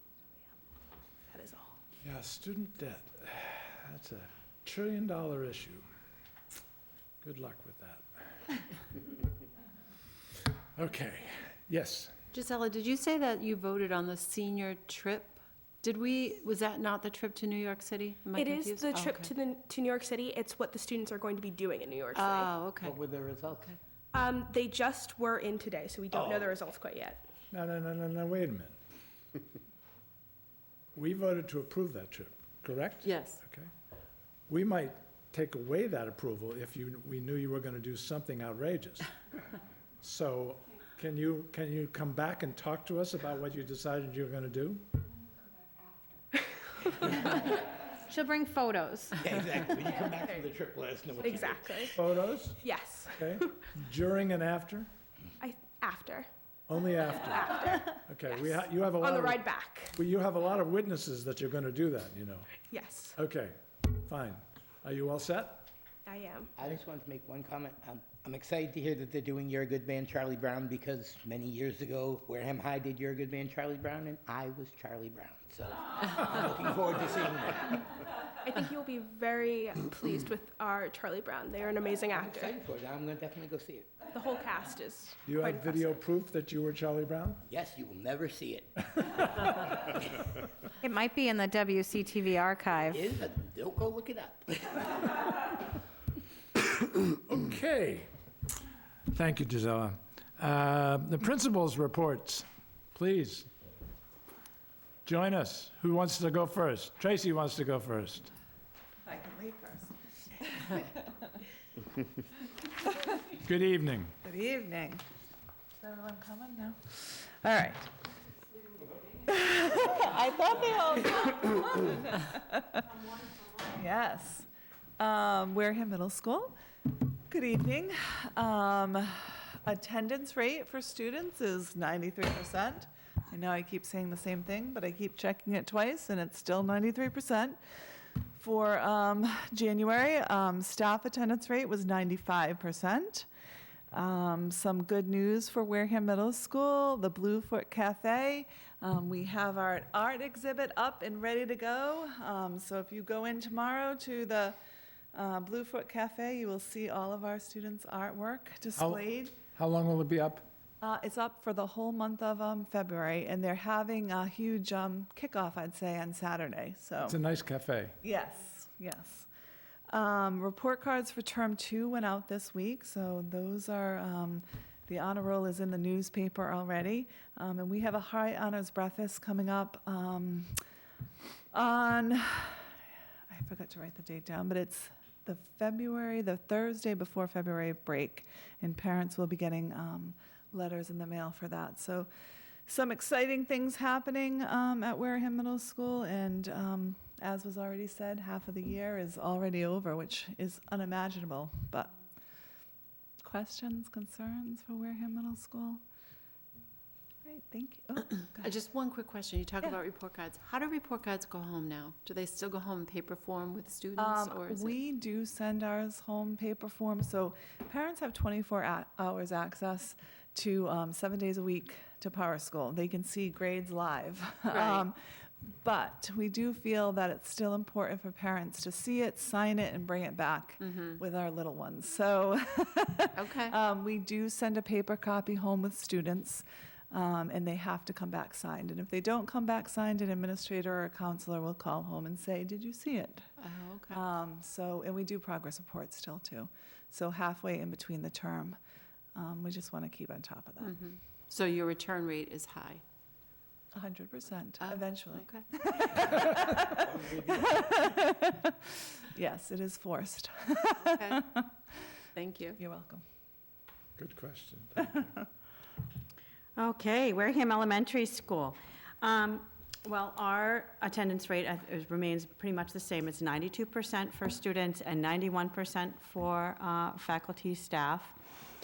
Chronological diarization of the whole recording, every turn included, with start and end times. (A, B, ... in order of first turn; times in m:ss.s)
0:01.3-0:01.7 A
0:02.0-0:05.8 B
0:07.2-0:08.0 B
0:10.8-0:12.1 B
0:12.3-0:19.3 C
0:18.3-0:22.5 A
0:22.1-0:23.0 C
0:22.8-0:23.7 D
0:24.1-0:27.2 A
0:26.1-0:26.5 D
0:27.5-0:28.7 B
0:30.9-0:33.7 B
0:33.0-0:33.4 C
0:34.5-0:39.1 B
0:40.0-0:44.8 B
0:47.2-0:47.5 E
0:48.1-0:49.2 E
0:49.2-0:51.9 D
0:51.2-0:52.0 A
0:51.9-0:52.6 B
0:52.6-0:53.5 A
0:53.1-0:54.9 B
0:55.4-0:56.3 A
0:56.7-0:59.4 B
0:57.3-1:00.0 A
0:59.9-1:02.6 B
1:02.7-1:03.2 A
1:03.2-1:05.7 B
1:06.0-1:06.5 A
1:06.6-1:17.8 D
1:18.4-1:22.6 A
1:22.1-1:23.9 D
1:24.1-1:26.0 A
1:25.2-1:27.4 B
1:27.4-1:28.8 D
1:29.5-1:29.9 D
1:30.8-1:33.0 E
1:32.8-1:35.2 D
1:37.3-1:38.1 B
1:39.1-1:43.5 B
1:45.0-1:48.3 B
1:49.0-1:51.0 F
1:53.4-1:54.1 B
1:54.2-1:55.0 F
1:55.8-1:57.9 F
1:59.2-2:03.0 F
2:03.6-2:04.5 F
2:05.0-2:06.5 F
2:07.3-2:17.6 F
2:18.4-2:23.3 F
2:23.9-2:34.6 F
2:35.1-2:39.4 F
2:39.5-2:40.4 B
2:40.8-2:47.2 F
2:47.0-2:48.0 B
2:48.0-2:49.3 F
2:49.9-3:00.5 F
3:01.5-3:02.7 F
3:03.3-3:12.1 F
3:12.6-3:21.9 F
3:23.2-3:25.8 F
3:27.2-3:28.5 F
3:28.3-3:34.8 C
3:34.0-3:45.0 F
3:44.5-3:44.8 C
3:45.6-4:03.3 F
3:53.2-3:53.6 C
4:03.4-4:04.0 C
4:03.9-4:08.6 F
4:09.1-4:10.7 F
4:10.6-4:12.8 C
4:13.7-4:21.4 F
4:14.6-4:15.4 C
4:20.8-4:21.2 C
4:22.2-4:22.6 C
4:22.6-4:23.0 F
4:24.0-4:25.1 B
4:26.6-4:38.1 G